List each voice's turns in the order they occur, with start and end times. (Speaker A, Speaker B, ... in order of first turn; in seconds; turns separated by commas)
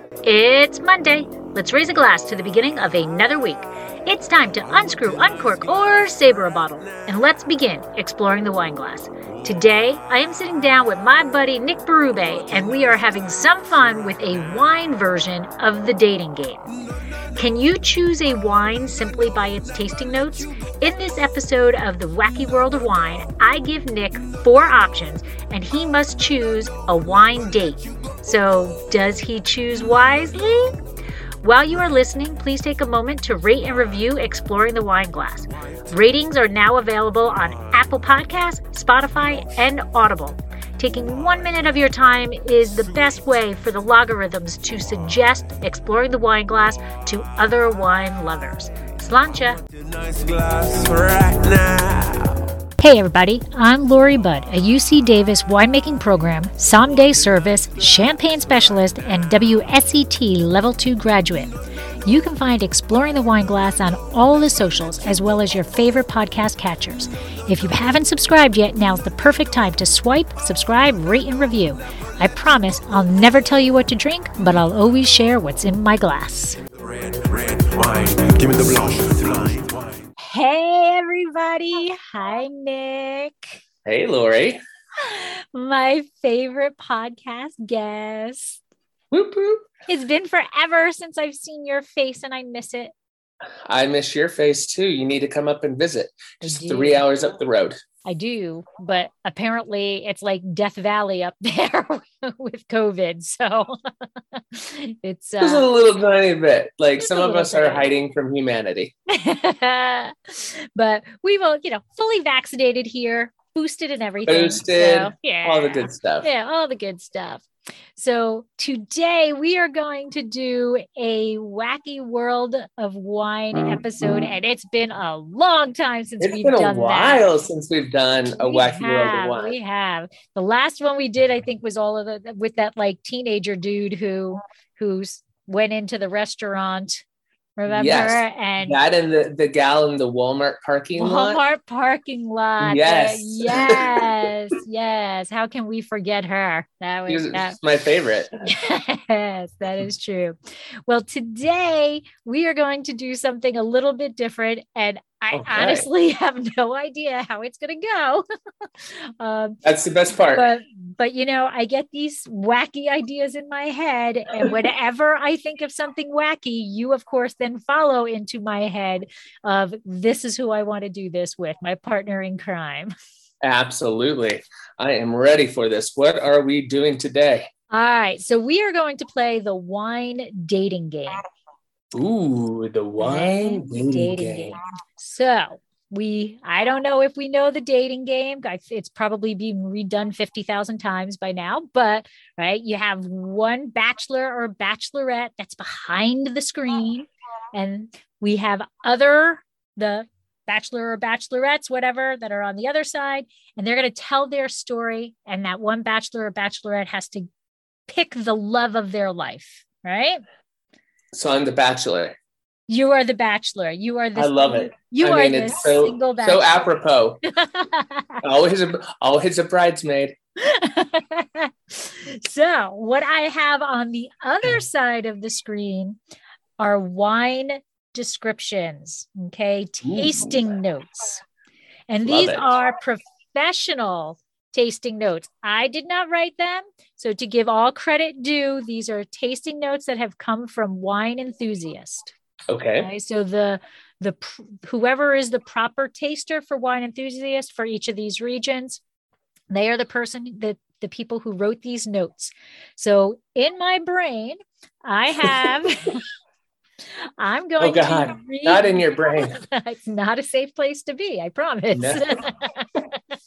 Speaker A: 0.2-16.7, Speaker A: 17.4-30.8, Speaker A: 31.4-49.6, Speaker B: 49.6-52.4, Speaker A: 52.8-61.5, Speaker A: 62.0-76.6, Speaker B: 76.8-80.0, Speaker A: 80.2-83.5, Speaker C: 83.8-84.6, Speaker A: 85.0-88.6, Speaker C: 89.1-89.7, Speaker A: 89.9-92.9, Speaker C: 93.7-97.8, Speaker A: 96.4-97.0, Speaker A: 98.0-103.8, Speaker A: 104.3-105.7, Speaker C: 105.4-108.9, Speaker A: 107.0-107.9, Speaker A: 109.1-117.4, Speaker C: 114.2-116.3, Speaker A: 118.0-127.2, Speaker C: 123.5-124.3, Speaker C: 126.2-129.6, Speaker A: 128.3-137.0, Speaker A: 137.6-138.8, Speaker C: 137.7-141.4, Speaker A: 140.9-147.6, Speaker C: 142.6-144.3, Speaker C: 147.1-148.3, Speaker A: 148.4-150.3, Speaker A: 150.9-158.2, Speaker C: 155.3-155.9, Speaker A: 158.8-159.6, Speaker C: 159.6-160.5, Speaker A: 160.3-172.9, Speaker C: 173.4-177.5, Speaker A: 177.7-181.2, Speaker C: 181.9-184.6, Speaker A: 183.0-207.3, Speaker A: 207.9-210.2, Speaker C: 211.1-212.2, Speaker A: 212.7-216.6, Speaker C: 214.2-217.2, Speaker A: 217.3-218.2, Speaker C: 218.2-220.1, Speaker A: 220.4-226.0, Speaker A: 226.6-231.2, Speaker C: 229.8-230.4, Speaker A: 231.9-242.1, Speaker C: 232.0-232.5, Speaker C: 242.5-242.9, Speaker A: 242.8-248.8, Speaker A: 249.5-256.0, Speaker A: 257.2-262.9, Speaker C: 257.6-259.4, Speaker C: 261.7-262.2